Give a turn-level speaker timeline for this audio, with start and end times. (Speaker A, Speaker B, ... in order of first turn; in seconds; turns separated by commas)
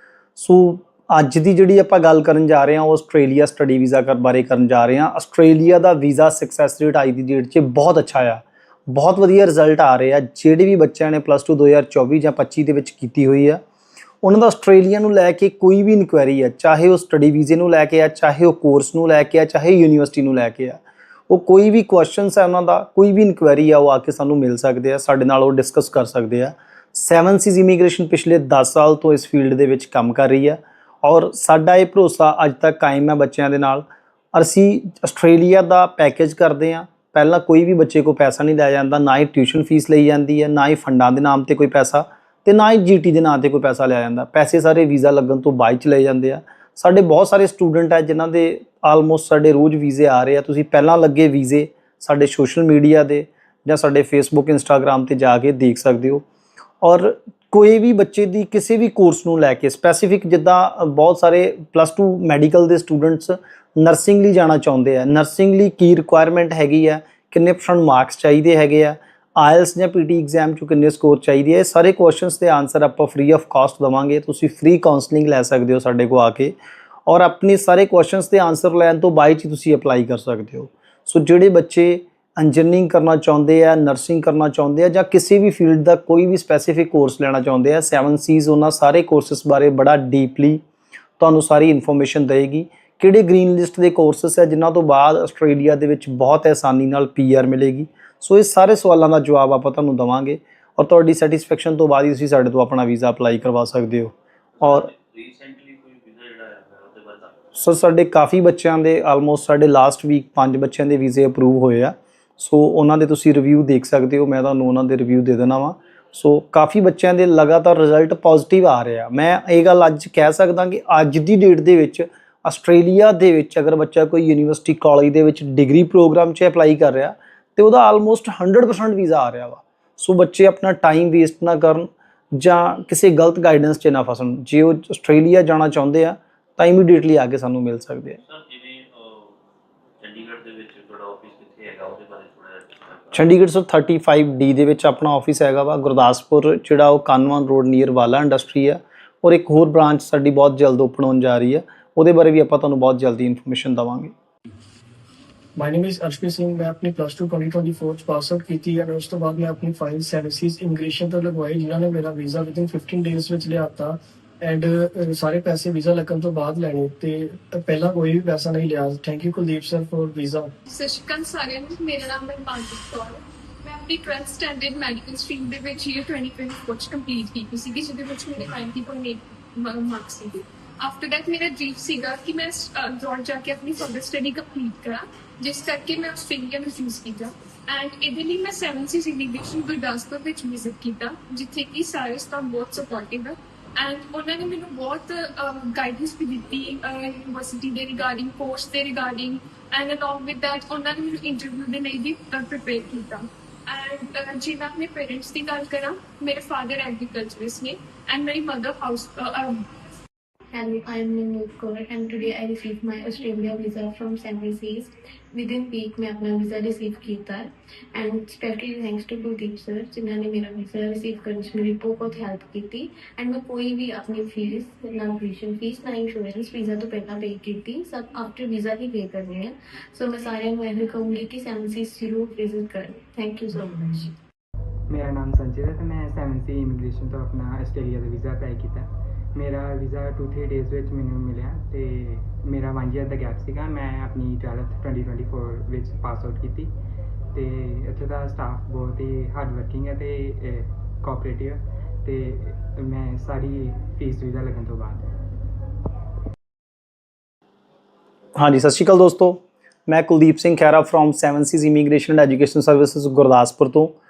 Speaker A: 0.4-13.6, Speaker A: 14.2-56.2, Speaker A: 56.8-76.5, Speaker A: 77.1-90.6, Speaker A: 91.2-104.9, Speaker B: 104.6-107.3, Speaker A: 107.5-138.2, Speaker B: 138.2-139.3, Speaker B: 140.0-143.3, Speaker A: 143.1-154.1, Speaker C: 155.6-170.5, Speaker D: 170.7-209.6, Speaker E: 210.5-234.1, Speaker F: 234.9-246.7, Speaker F: 247.3-255.1, Speaker A: 258.4-264.0